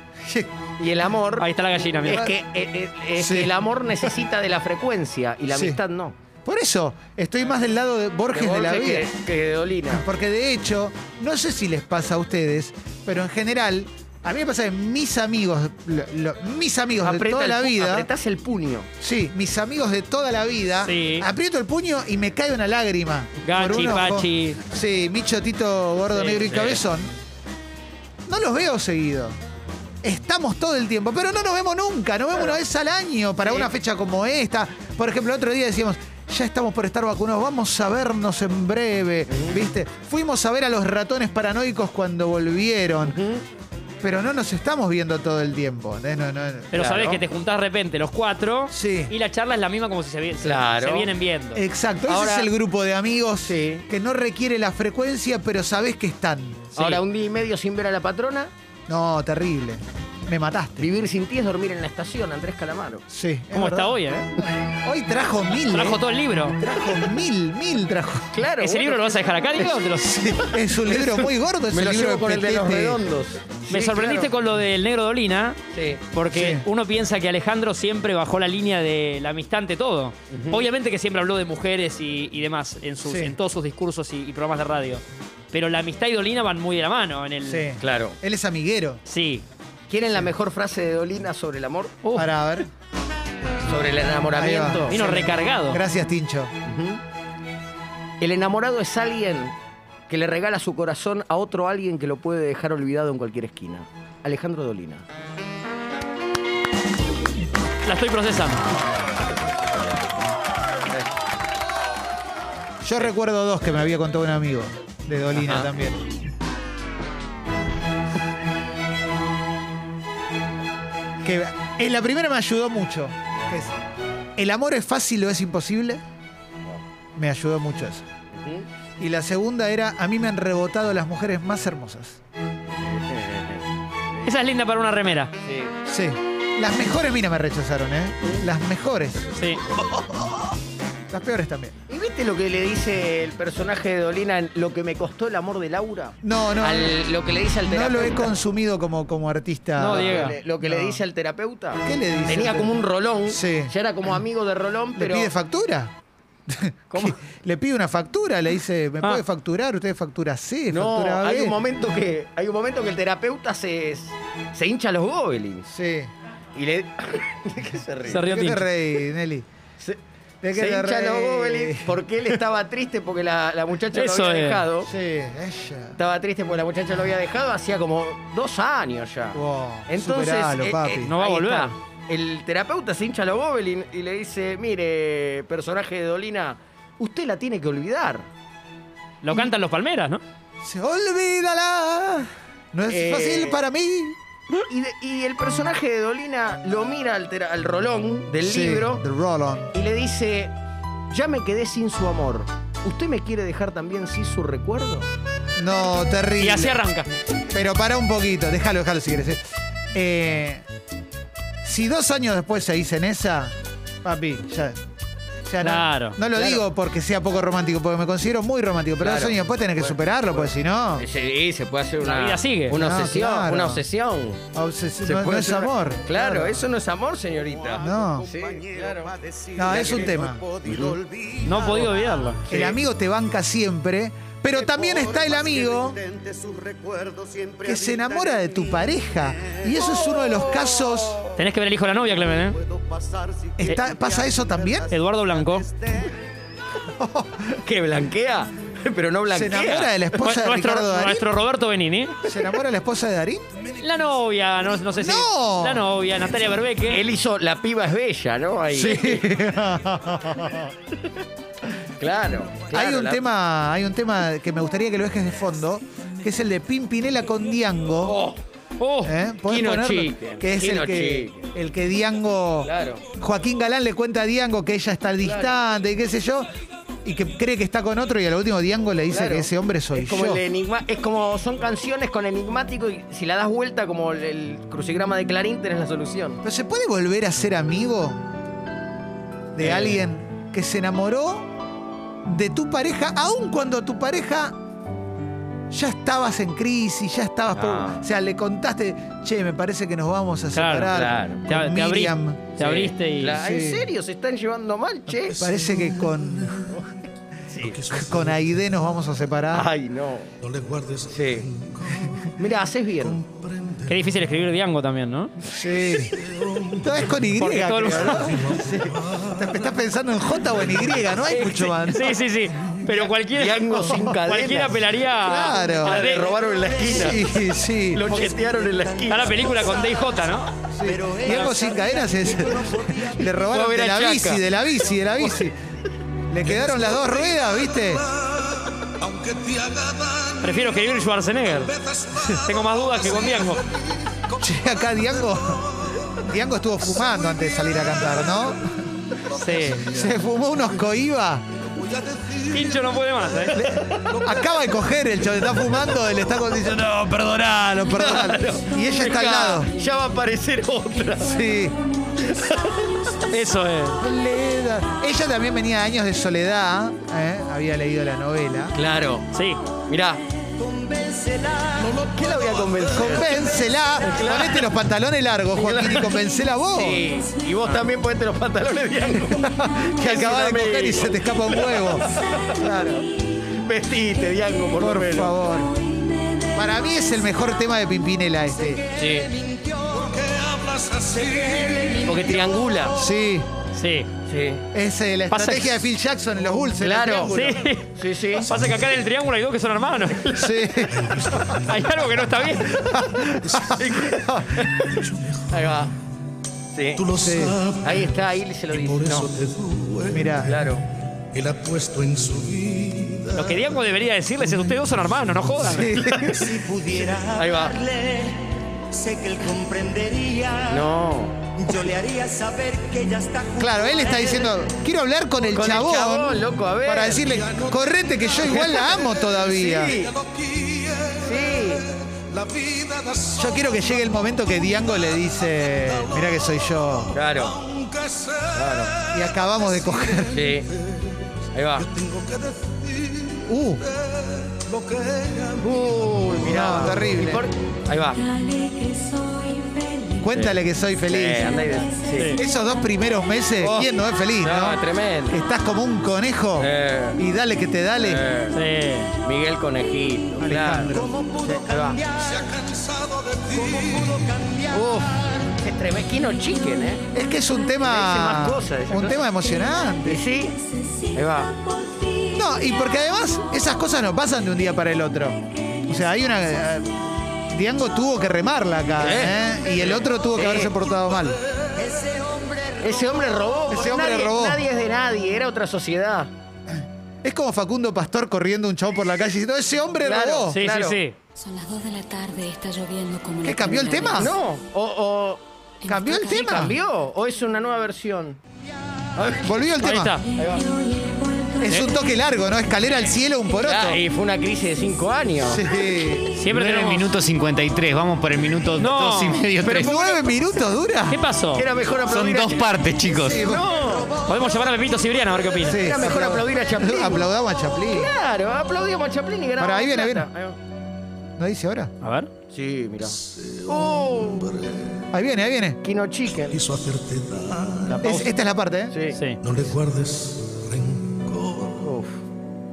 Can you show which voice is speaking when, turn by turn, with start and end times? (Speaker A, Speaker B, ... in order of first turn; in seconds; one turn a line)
Speaker A: 0.2-0.5
Speaker B: 0.8-1.5
Speaker C: 1.4-2.2
Speaker B: 2.0-6.2
Speaker A: 2.1-2.3
Speaker A: 3.2-3.5
Speaker A: 5.5-5.8
Speaker A: 6.4-9.1
Speaker B: 8.3-10.0
Speaker A: 9.9-18.1
Speaker B: 17.0-18.9
Speaker A: 19.0-27.1
Speaker C: 20.8-21.3
Speaker C: 23.4-24.6
Speaker C: 26.2-26.6
Speaker B: 26.4-26.8
Speaker A: 28.2-29.4
Speaker A: 30.0-43.2
Speaker B: 33.4-33.7
Speaker B: 39.3-39.6
Speaker B: 43.0-43.4
Speaker A: 44.0-46.7
Speaker C: 46.7-51.6
Speaker B: 46.7-47.2
Speaker A: 48.7-49.1
Speaker B: 50.4-51.1
Speaker A: 51.5-56.7
Speaker B: 52.1-52.5
Speaker B: 53.5-53.9
Speaker C: 56.7-57.0
Speaker B: 56.8-58.5
Speaker A: 58.9-60.9
Speaker B: 60.8-63.0
Speaker A: 63.1-64.0
Speaker C: 63.5-64.3
Speaker A: 64.7-66.0
Speaker C: 65.7-66.6
Speaker A: 66.6-68.3
Speaker B: 68.3-69.8
Speaker C: 68.6-70.2
Speaker A: 70.0-73.0
Speaker B: 70.7-74.3
Speaker C: 73.7-75.6
Speaker B: 75.7-76.0
Speaker C: 76.1-87.7
Speaker A: 76.3-76.7
Speaker B: 80.3-80.6
Speaker A: 83.0-83.3
Speaker A: 87.4-89.0
Speaker B: 87.8-88.2
Speaker C: 89.1-89.4
Speaker B: 89.9-91.9
Speaker C: 92.0-92.3
Speaker A: 92.1-92.7
Speaker B: 93.6-95.0
Speaker A: 94.3-96.5
Speaker C: 94.9-95.8
Speaker B: 96.6-97.0
Speaker B: 98.2-99.5
Speaker B: 100.1-105.0
Speaker C: 107.8-108.7
Speaker A: 112.8-116.0
Speaker A: 121.2-123.7
Speaker A: 124.4-126.0
Speaker A: 127.2-128.1
Speaker B: 128.3-128.7
Speaker A: 129.0-132.2
Speaker B: 132.8-133.6
Speaker C: 134.2-135.3
Speaker B: 135.4-135.7
Speaker A: 135.8-139.3
Speaker C: 139.3-139.6
Speaker A: 141.1-141.7
Speaker B: 141.9-148.3
Speaker A: 146.2-147.0
Speaker A: 147.7-151.0
Speaker C: 149.8-150.3
Speaker B: 149.8-155.3
Speaker A: 151.8-153.7
Speaker A: 154.9-155.9
Speaker A: 156.5-161.6
Speaker B: 156.9-157.2
Speaker B: 160.7-165.7
Speaker A: 165.7-166.1
Speaker B: 166.5-168.2
Speaker C: 168.1-168.7
Speaker A: 168.2-169.4
Speaker A: 170.4-172.3
Speaker B: 170.5-174.9
Speaker C: 173.9-174.6
Speaker A: 174.8-176.0
Speaker B: 175.9-188.3
Speaker A: 179.3-181.1
Speaker C: 181.1-181.7
Speaker C: 189.2-190.2
Speaker A: 190.6-194.2
Speaker B: 192.9-193.6
Speaker B: 194.7-199.0
Speaker A: 198.4-199.7
Speaker B: 199.7-200.5
Speaker B: 201.1-205.1
Speaker A: 205.6-206.8
Speaker C: 206.4-207.1
Speaker A: 207.5-209.4
Speaker A: 209.9-210.6
Speaker A: 211.6-214.8
Speaker A: 215.4-221.1
Speaker C: 215.6-216.2
Speaker B: 216.3-216.6
Speaker B: 219.0-224.4
Speaker C: 222.0-222.8
Speaker A: 222.7-223.8
Speaker A: 224.5-226.7
Speaker B: 225.0-229.1
Speaker D: 227.3-232.3
Speaker A: 227.8-228.3
Speaker A: 229.5-230.4
Speaker B: 229.7-230.9
Speaker C: 231.4-232.4
Speaker B: 232.5-232.8
Speaker A: 232.5-236.0
Speaker D: 234.5-240.1
Speaker A: 237.6-241.2
Speaker B: 241.0-241.3
Speaker C: 241.3-242.6
Speaker D: 242.2-246.2
Speaker A: 243.6-244.9
Speaker C: 244.9-245.7
Speaker A: 246.9-247.6
Speaker B: 247.6-249.9
Speaker A: 249.3-251.3
Speaker C: 249.7-252.2
Speaker A: 252.2-253.5
Speaker C: 253.8-257.0
Speaker A: 255.0-255.9
Speaker B: 256.9-259.3
Speaker A: 258.7-260.7
Speaker B: 261.9-263.2
Speaker A: 262.7-268.2
Speaker B: 268.0-268.4
Speaker C: 268.8-269.1
Speaker A: 269.0-276.5
Speaker B: 269.4-271.5
Speaker B: 272.6-273.0
Speaker B: 275.2-275.5
Speaker A: 277.0-280.4
Speaker B: 279.1-286.4
Speaker A: 286.4-288.2
Speaker A: 289.5-291.5
Speaker B: 289.6-290.0
Speaker A: 292.2-294.6
Speaker A: 295.7-302.4
Speaker B: 297.5-298.1
Speaker C: 300.5-300.9
Speaker B: 300.9-301.4
Speaker C: 301.5-303.4
Speaker B: 302.6-305.4
Speaker A: 303.3-303.9
Speaker A: 305.2-306.8
Speaker E: 305.3-306.8
Speaker B: 307.5-307.8
Speaker E: 307.6-308.7
Speaker A: 307.9-309.7
Speaker B: 309.5-310.3
Speaker E: 310.4-312.3
Speaker B: 311.1-311.5
Speaker B: 312.4-313.2
Speaker E: 313.0-314.2
Speaker C: 313.9-315.3
Speaker A: 315.5-316.2
Speaker E: 315.9-317.3
Speaker A: 316.8-322.2
Speaker C: 317.4-318.4
Speaker E: 317.9-319.7
Speaker E: 320.6-321.2
Speaker B: 321.3-321.7
Speaker C: 321.4-326.3
Speaker B: 322.8-324.8
Speaker A: 325.2-326.1
Speaker B: 325.8-327.3
Speaker D: 326.3-327.3
Speaker A: 326.9-328.1
Speaker B: 327.9-329.4
Speaker D: 328.1-330.3
Speaker C: 329.1-330.5
Speaker A: 330.7-335.6
Speaker D: 330.8-333.4
Speaker B: 333.4-334.5
Speaker B: 335.2-335.5
Speaker A: 336.3-338.0
Speaker E: 336.4-346.3
Speaker C: 340.4-343.6
Speaker A: 344.4-345.6
Speaker A: 346.2-348.8
Speaker E: 346.9-350.2
Speaker C: 349.4-349.9
Speaker A: 349.8-351.4
Speaker E: 351.6-356.2
Speaker C: 352.5-353.6
Speaker B: 353.5-354.1
Speaker A: 354.2-359.7
Speaker B: 357.9-361.4
Speaker A: 361.1-361.8
Speaker B: 362.2-362.9
Speaker C: 363.3-364.0
Speaker A: 364.0-368.8
Speaker B: 368.7-369.3
Speaker C: 369.3-369.6
Speaker B: 369.9-370.2
Speaker D: 370.6-372.0
Speaker B: 371.8-374.7
Speaker E: 372.1-373.4
Speaker A: 372.9-377.0
Speaker B: 375.5-382.9
Speaker A: 379.3-383.0
Speaker B: 383.6-385.4
Speaker A: 384.8-385.7
Speaker A: 386.5-388.8
Speaker D: 388.6-390.2
Speaker B: 388.9-389.3
Speaker E: 389.9-392.1
Speaker D: 391.1-392.4
Speaker B: 392.0-393.0
Speaker A: 392.9-393.5
Speaker C: 393.7-394.1
Speaker B: 394.3-394.6
Speaker A: 394.7-397.4
Speaker C: 395.3-395.8
Speaker B: 396.6-398.5
Speaker C: 397.2-400.5
Speaker E: 398.5-398.9
Speaker A: 400.3-401.1
Speaker E: 400.9-402.5
Speaker C: 401.5-402.9
Speaker A: 402.8-404.6
Speaker E: 403.4-405.9
Speaker B: 403.7-404.9
Speaker B: 405.5-405.9
Speaker B: 406.7-407.0
Speaker E: 406.9-413.8
Speaker A: 407.2-407.6
Speaker B: 407.8-409.3
Speaker A: 410.1-410.5
Speaker B: 410.5-410.8
Speaker C: 413.3-416.0
Speaker E: 415.5-415.8
Speaker A: 415.6-416.4
Speaker B: 416.0-416.4
Speaker D: 416.2-420.9
Speaker B: 417.3-417.8
Speaker B: 420.7-421.4
Speaker D: 421.6-424.6
Speaker A: 423.6-430.0
Speaker B: 425.5-427.3
Speaker E: 427.2-447.1
Speaker B: 428.5-428.9
Speaker B: 429.4-430.1
Speaker B: 431.2-431.8
Speaker A: 433.4-437.1
Speaker B: 437.1-437.6
Speaker B: 438.5-438.9
Speaker A: 439.1-440.5
Speaker B: 440.3-440.7
Speaker B: 441.5-441.9
Speaker A: 443.5-443.8
Speaker B: 445.6-448.2
Speaker A: 446.4-447.4
Speaker F: 448.2-450.2
Speaker A: 450.2-451.6
Speaker B: 451.1-452.4
Speaker C: 452.1-452.4
Speaker A: 452.4-458.2
Speaker B: 453.6-455.4
Speaker B: 456.6-457.2
Speaker B: 458.0-458.6
Speaker C: 458.5-459.1
Speaker B: 459.2-462.0
Speaker A: 460.4-461.1
Speaker D: 460.9-462.6
Speaker E: 462.2-464.3
Speaker D: 463.5-465.3
Speaker B: 464.7-467.0
Speaker A: 467.1-470.2
Speaker B: 467.8-469.3
Speaker B: 470.0-470.6
Speaker B: 471.1-471.5
Speaker F: 471.9-472.3
Speaker A: 472.3-477.0
Speaker A: 477.5-481.4
Speaker B: 479.0-480.7
Speaker E: 480.9-481.4
Speaker D: 481.8-483.3
Speaker B: 482.8-486.3
Speaker A: 483.7-484.6
Speaker A: 486.7-490.6
Speaker B: 490.0-491.0
Speaker C: 490.5-491.1
Speaker F: 491.4-494.3
Speaker A: 493.4-494.3
Speaker B: 494.1-495.4
Speaker F: 495.8-496.7
Speaker A: 495.9-496.8
Speaker B: 496.2-498.4
Speaker B: 499.1-499.5
Speaker A: 499.4-500.2
Speaker C: 499.8-500.2
Speaker B: 500.4-500.6
Speaker F: 500.5-501.9
Speaker A: 501.6-504.0
Speaker B: 503.5-505.7
Speaker A: 505.4-506.3
Speaker C: 506.3-507.1
Speaker G: 506.5-509.9
Speaker C: 508.8-509.4
Speaker A: 509.6-511.2
Speaker B: 509.6-510.2
Speaker C: 511.1-511.7
Speaker B: 511.5-514.1
Speaker G: 512.0-513.5
Speaker A: 513.1-513.7
Speaker C: 514.2-515.8
Speaker A: 515.6-518.1
Speaker B: 515.8-517.3
Speaker B: 517.9-520.6
Speaker A: 519.6-520.3
Speaker A: 521.4-521.9
Speaker C: 522.0-522.3
Speaker B: 522.5-524.5
Speaker E: 523.0-525.1
Speaker A: 525.1-525.8
Speaker B: 525.8-526.6
Speaker E: 526.4-528.1
Speaker C: 527.9-528.3
Speaker A: 528.0-528.9
Speaker B: 528.9-529.2
Speaker C: 529.1-529.4
Speaker E: 529.4-531.9
Speaker B: 531.8-532.2